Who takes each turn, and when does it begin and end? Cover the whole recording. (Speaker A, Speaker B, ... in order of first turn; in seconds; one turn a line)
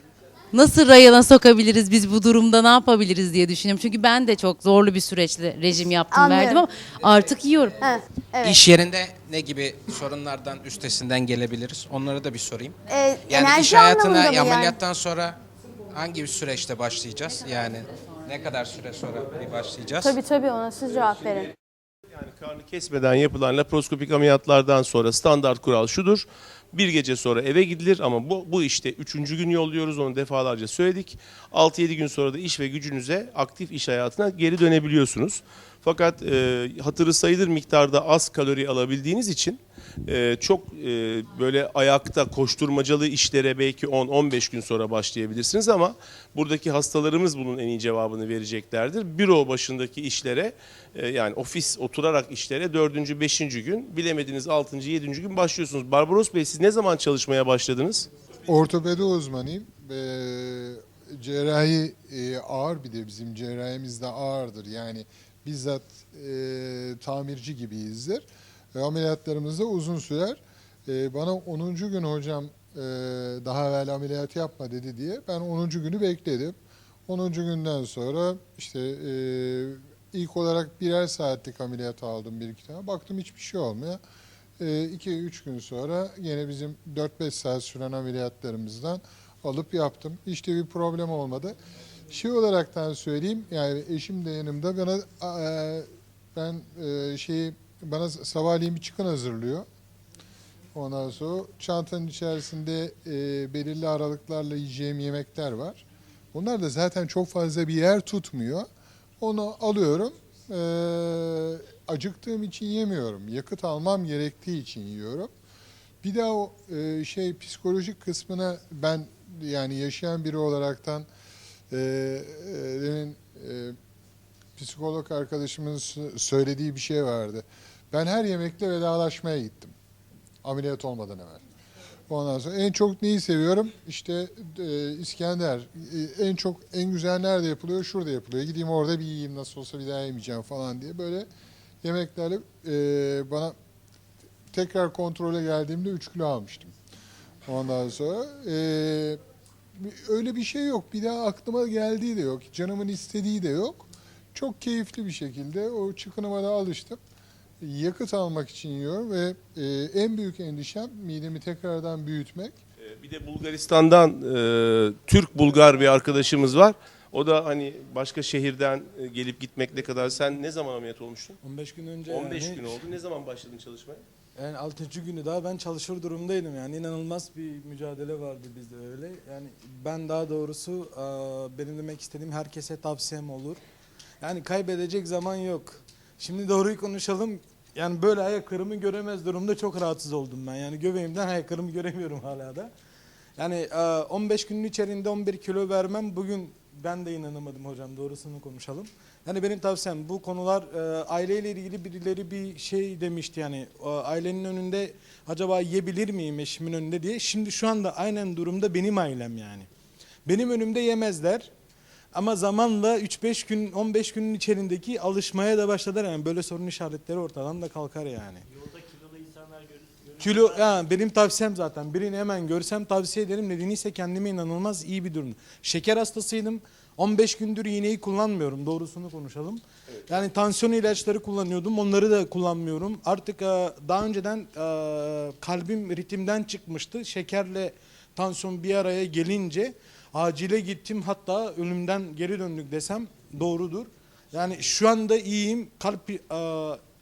Speaker A: 0.5-7.8
Speaker B: 6.1-6.6
Speaker B: 7.8-8.6
Speaker C: 8.4-12.7
Speaker B: 12.9-14.8
Speaker C: 13.3-15.4
Speaker C: 15.9-20.2
Speaker B: 20.0-21.5
Speaker D: 22.1-58.1
Speaker E: 58.5-76.5
Speaker E: 77.1-84.0
Speaker E: 84.6-91.6
Speaker E: 92.1-99.7
Speaker E: 100.7-108.7
Speaker E: 109.2-115.3
Speaker E: 116.0-121.1
Speaker E: 121.7-123.7
Speaker E: 124.6-129.7
Speaker E: 130.4-131.4
Speaker E: 132.1-141.3
Speaker E: 141.8-143.5
Speaker E: 144.5-146.7
Speaker E: 147.4-149.2
Speaker E: 149.8-157.0
Speaker E: 157.6-162.6
Speaker D: 162.8-171.4
Speaker F: 171.4-172.8
Speaker D: 172.1-174.0
Speaker F: 174.3-183.6
Speaker F: 184.2-192.7
Speaker F: 193.4-209.7
Speaker F: 210.2-211.5
Speaker F: 212.1-218.4
Speaker F: 220.1-246.8